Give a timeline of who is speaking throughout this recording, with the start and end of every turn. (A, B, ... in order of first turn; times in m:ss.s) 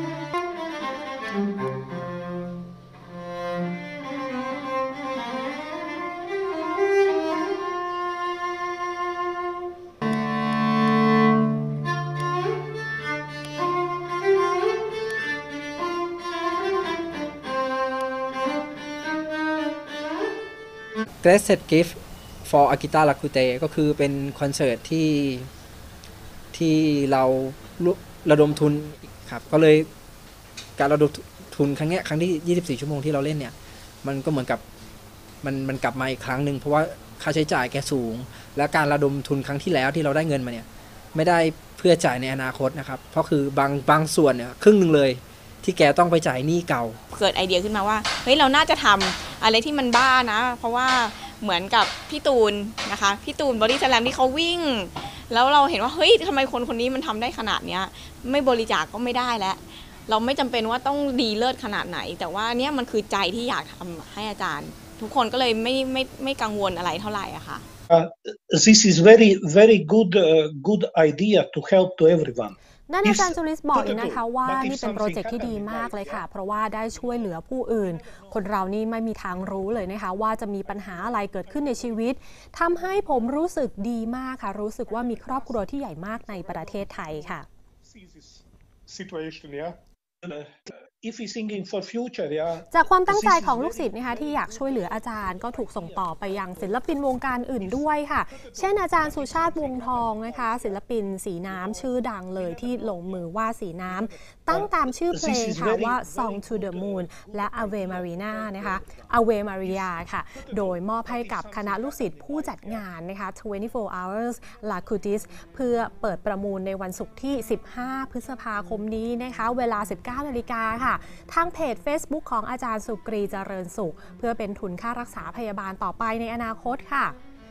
0:21.2-0:25.5 A
0:26.5-0:29.9 A
0:30.8-0:34.6 A
0:35.4-0:47.0 A
0:47.1-1:07.6 B
1:07.9-1:16.2 C
1:12.9-1:27.4 D
1:16.8-1:18.7 C
1:20.6-1:22.1 C
1:22.8-1:23.4 C
1:24.8-1:40.8 C
1:32.7-2:07.1 D
1:41.5-1:43.3 C
1:43.8-1:52.8 C